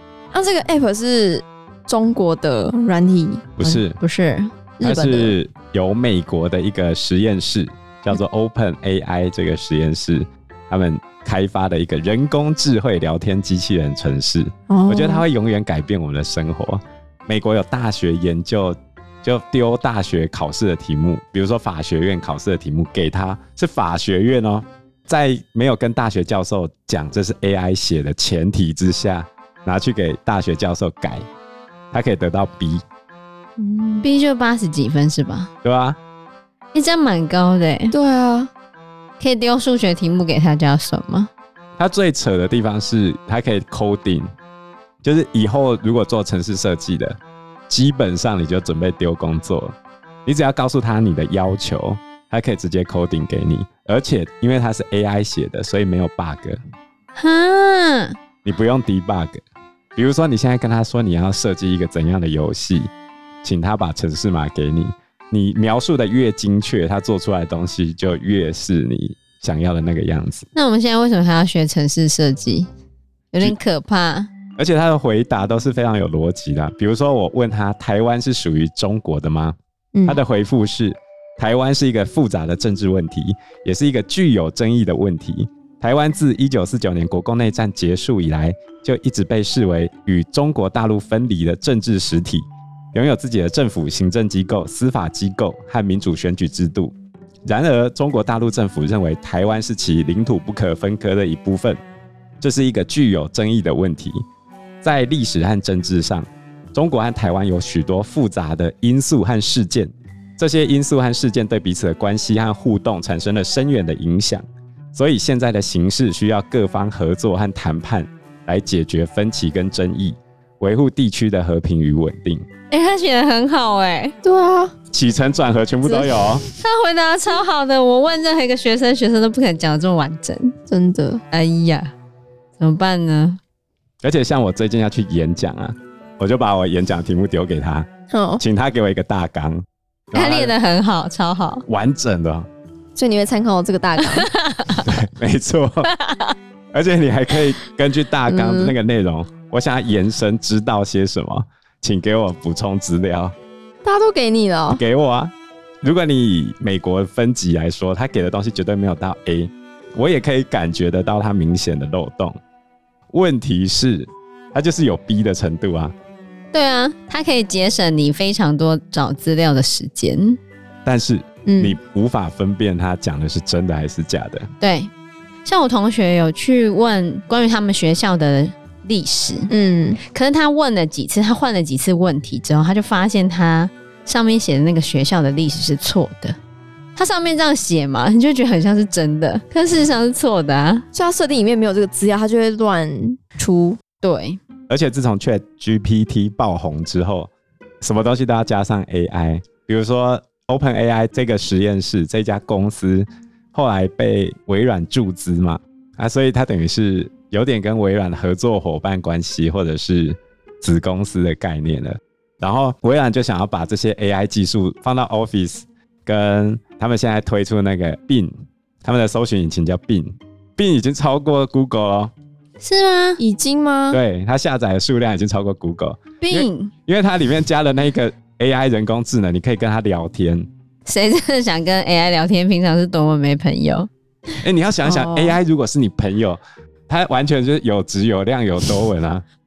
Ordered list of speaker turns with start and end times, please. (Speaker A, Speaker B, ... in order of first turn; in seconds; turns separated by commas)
Speaker A: 0.3-3.5, Speaker B: 3.6-4.0, Speaker C: 3.6-4.5, Speaker A: 4.8-5.4, Speaker B: 4.8-31.2, Speaker A: 14.7-15.2, Speaker B: 31.9-32.8, Speaker C: 33.6-35.5, Speaker B: 35.6-36.0, Speaker C: 36.7-37.9, Speaker A: 37.9-38.5, Speaker C: 39.2-41.3, Speaker B: 41.8-44.3, Speaker B: 45.0-47.2, Speaker B: 47.7-49.8, Speaker B: 50.3-56.6, Speaker C: 57.1-58.1, Speaker B: 58.5-59.4, Speaker B: 60.0-62.9, Speaker B: 63.4-70.5, Speaker C: 70.5-72.7, Speaker C: 73.3-74.3, Speaker B: 74.6-79.5, Speaker A: 80.0-80.2, Speaker B: 80.1-96.9, Speaker B: 97.5-101.8, Speaker B: 102.4-104.2, Speaker B: 104.8-114.4, Speaker B: 114.9-122.5, Speaker C: 122.7-124.2, Speaker A: 124.2-124.7, Speaker B: 124.9-126.4, Speaker A: 125.8-126.4, Speaker C: 126.6-130.5, Speaker A: 130.7-131.2, Speaker C: 131.3-131.9, Speaker C: 132.6-133.4, Speaker B: 134.0-140.6, Speaker A: 138.1-138.4, Speaker C: 140.1-141.6, Speaker B: 141.7-142.5, Speaker A: 143.0-144.3, Speaker C: 144.1-144.8, Speaker B: 144.8-145.9, Speaker C: 145.9-146.3, Speaker B: 146.7-153.3, Speaker A: 148.3-148.7, Speaker A: 153.8-154.8, Speaker B: 154.7-162.3, Speaker B: 163.1-165.9, Speaker C: 166.5-170.4, Speaker B: 170.9-174.5, Speaker A: 171.5-171.8, Speaker C: 174.6-174.9, Speaker C: 175.4-186.3, Speaker A: 179.5-180.0, Speaker C: 187.0-190.8, Speaker A: 190.9-193.8, Speaker C: 194.0-194.4, Speaker B: 194.7-197.3, Speaker B: 197.8-218.3, Speaker B: 218.8-222.1, Speaker C: 222.6-223.2, Speaker A: 223.2-224.0, Speaker B: 223.9-230.5, Speaker C: 226.2-226.7, Speaker C: 230.9-233.9, Speaker B: 234.4-239.2, Speaker A: 234.8-235.4